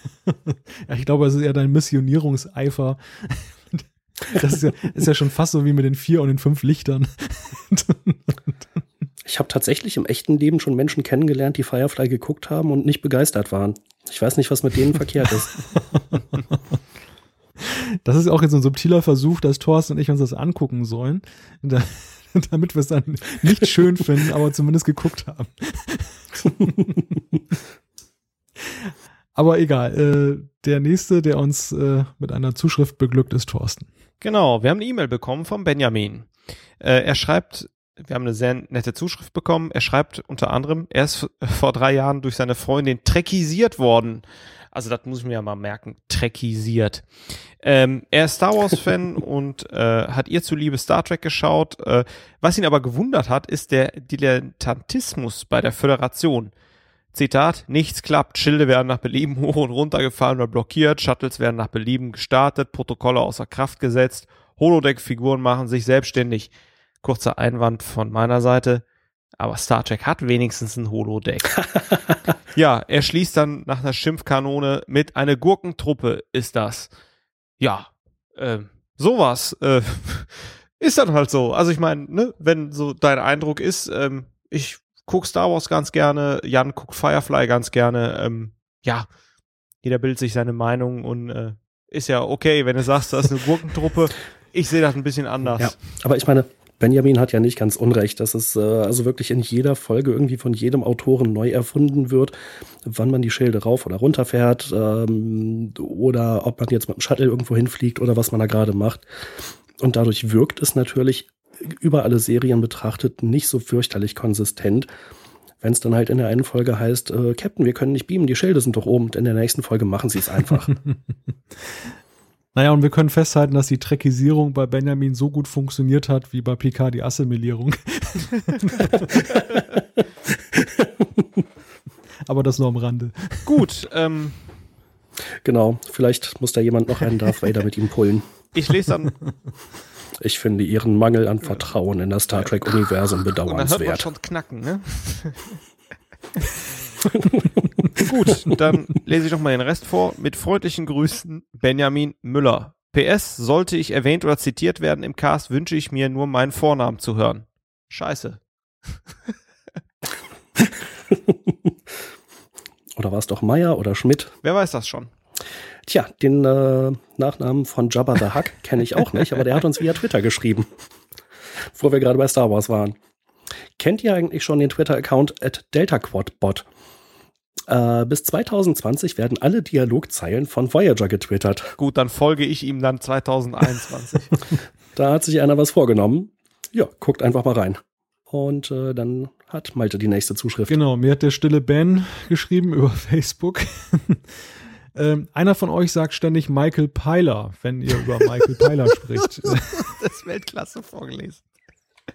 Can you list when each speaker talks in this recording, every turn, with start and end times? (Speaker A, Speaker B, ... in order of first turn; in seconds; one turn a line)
Speaker A: 0.3-8.4
Speaker B: 9.2-15.6
Speaker A: 15.8-16.2
Speaker A: 17.6-27.1
Speaker A: 28.7-33.9
Speaker C: 34.2-36.3
Speaker C: 36.8-47.1
Speaker C: 47.6-56.5
Speaker C: 57.1-66.5
Speaker C: 67.0-68.8
Speaker C: 69.4-71.7
Speaker C: 72.5-76.9
Speaker C: 77.6-89.1
Speaker C: 89.8-95.8
Speaker B: 95.5-109.1
Speaker B: 109.8-114.9
Speaker B: 115.6-120.7
Speaker A: 122.5-129.5
Speaker B: 130.4-131.4
Speaker A: 132.3-133.6
Speaker C: 133.5-134.5
Speaker B: 135.4-138.3
Speaker C: 138.6-139.2
Speaker B: 140.2-144.1
Speaker C: 143.3-145.6
Speaker B: 147.1-148.1
Speaker C: 147.9-158.4
Speaker B: 160.6-161.7
Speaker B: 162.9-164.3
Speaker C: 164.4-165.1
Speaker B: 165.8-170.7
Speaker B: 171.7-173.0
Speaker B: 173.8-176.7
Speaker B: 177.7-181.8
Speaker C: 181.8-184.4
Speaker B: 184.9-190.7
Speaker A: 190.7-194.2
Speaker A: 194.9-199.8
Speaker C: 199.4-201.4